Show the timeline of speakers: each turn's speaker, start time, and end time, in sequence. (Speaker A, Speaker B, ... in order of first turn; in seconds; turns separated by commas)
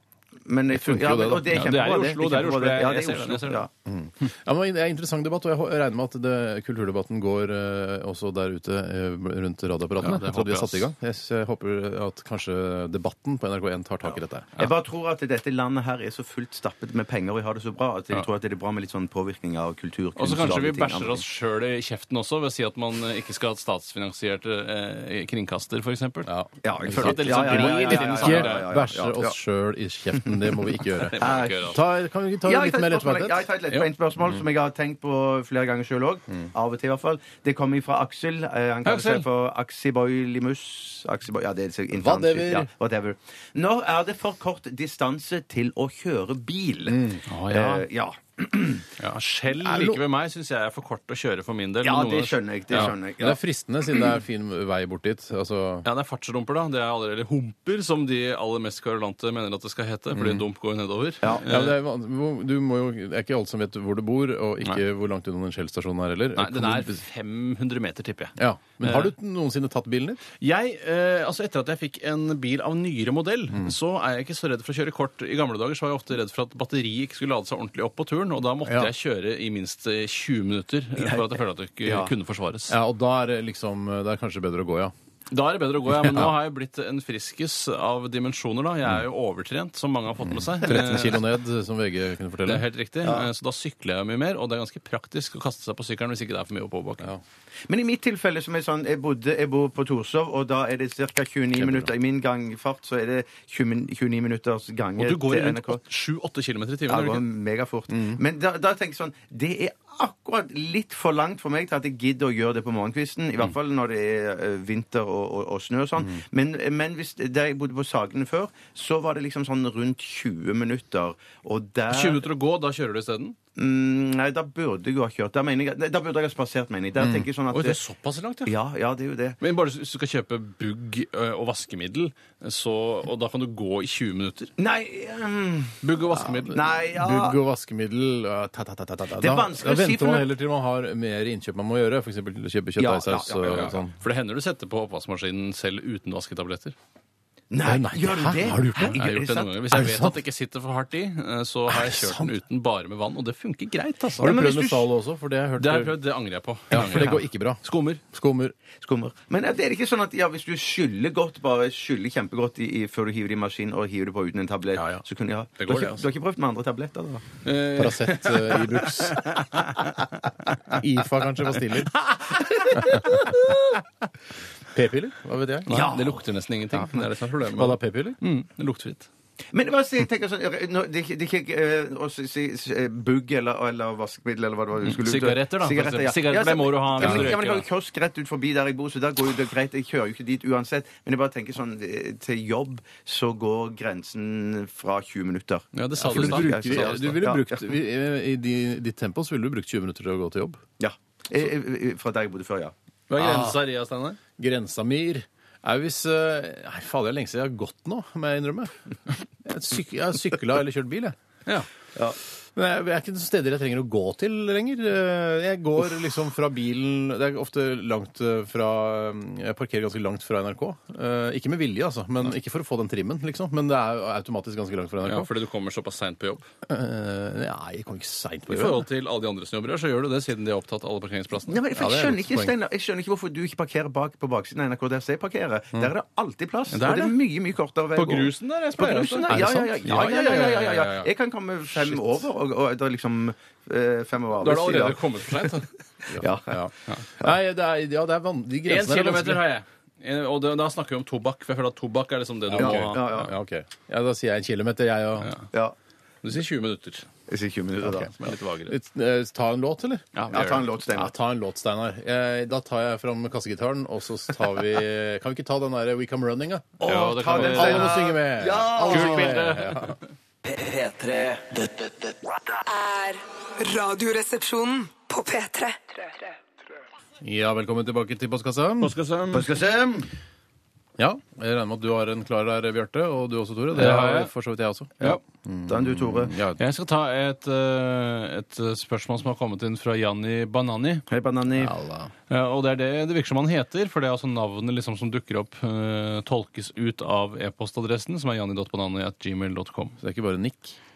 Speaker A: 0.5-3.7, Speaker B: 0.7-1.6, Speaker C: 1.5-3.6, Speaker B: 3.9-14.5, Speaker C: 10.0-10.9, Speaker A: 14.6-21.2, Speaker C: 20.2-26.3, Speaker B: 26.2-33.5, Speaker A: 26.6-29.4, Speaker C: 26.9-28.7, Speaker C: 31.0-31.8, Speaker A: 31.2-31.7, Speaker A: 32.4-48.9, Speaker C: 38.8-39.2, Speaker B: 41.9-42.7, Speaker B: 46.9-47.2, Speaker C: 47.2-47.9, Speaker C: 49.0-52.9, Speaker B: 49.7-49.9, Speaker A: 51.8-53.4, Speaker B: 52.7-55.9, Speaker C: 55.8-61.8, Speaker B: 60.1-60.4, Speaker B: 61.4-67.0, Speaker C: 66.3-69.1, Speaker B: 68.4-70.2, Speaker C: 70.4-82.8, Speaker B: 78.6-78.9, Speaker A: 81.0-81.3, Speaker A: 81.8-82.1, Speaker B: 82.7-84.9, Speaker C: 85.3-91.2, Speaker B: 86.0-86.3, Speaker B: 90.2-92.7, Speaker C: 92.4-97.1, Speaker A: 93.0-93.3, Speaker A: 97.7-105.8, Speaker B: 101.6-101.9, Speaker C: 105.0-107.2, Speaker A: 106.9-122.2, Speaker B: 107.9-108.2, Speaker C: 121.9-123.3, Speaker A: 123.5-127.8, Speaker B: 127.0-127.3, Speaker C: 127.5-128.5, Speaker A: 128.4-129.4, Speaker C: 129.4-134.5, Speaker A: 134.6-135.8, Speaker C: 135.8-136.6, Speaker B: 136.2-143.9, Speaker A: 136.5-137.4, Speaker A: 139.2-140.3, Speaker A: 142.8-143.7, Speaker C: 143.4-146.7, Speaker A: 147.5-149.6, Speaker B: 147.6-149.0, Speaker C: 148.8-154.3, Speaker B: 149.7-150.2, Speaker B: 151.7-152.3, Speaker B: 154.2-156.0, Speaker A: 154.2-154.9, Speaker C: 155.6-158.0, Speaker B: 156.7-158.5, Speaker A: 158.8-167.2, Speaker C: 165.6-166.0, Speaker C: 167.4-170.1, Speaker B: 167.8-169.4, Speaker B: 170.7-172.0, Speaker C: 172.7-173.3, Speaker B: 172.8-173.2, Speaker B: 174.7-175.8, Speaker C: 175.7-179.1, Speaker A: 175.7-176.2, Speaker B: 177.5-178.2, Speaker A: 179.5-197.7, Speaker C: 184.8-187.7, Speaker B: 187.0-187.3, Speaker C: 195.7-197.2, Speaker B: 196.0-200.6, Speaker A: 200.8-202.7, Speaker C: 203.1-204.2, Speaker B: 203.2-203.6, Speaker B: 204.4-208.7, Speaker B: 209.4-211.1, Speaker B: 212.5-225.3, Speaker C: 225.0-226.5, Speaker B: 226.7-228.8, Speaker C: 228.5-231.6, Speaker A: 231.5-245.5, Speaker B: 231.7-232.5, Speaker C: 236.7-237.1, Speaker C: 237.9-241.1, Speaker B: 239.3-240.2, Speaker C: 244.4-245.7, Speaker A: 246.1-246.7, Speaker B: 246.1-249.4, Speaker C: 248.7-253.3, Speaker B: 252.5-255.3, Speaker A: 252.6-253.3, Speaker C: 255.2-255.5, Speaker C: 256.2-257.1, Speaker A: 257.3-258.1, Speaker B: 257.8-260.1, Speaker C: 258.1-258.7, Speaker C: 260.1-260.6, Speaker A: 260.3-261.1, Speaker B: 260.9-270.0, Speaker C: 266.8-268.0, Speaker A: 266.8-269.3, Speaker C: 268.9-270.0, Speaker D: 270.4-272.4, Speaker E: 272.6-276.3, Speaker B: 277.2-279.0, Speaker C: 278.8-279.4, Speaker A: 279.3-280.1, Speaker B: 281.0-286.6, Speaker C: 283.7-284.3, Speaker A: 285.0-286.4, Speaker C: 286.6-291.0, Speaker A: 291.1-291.7, Speaker B: 291.5-292.1, Speaker C: 292.3-300.0, Speaker B: 300.0-300.8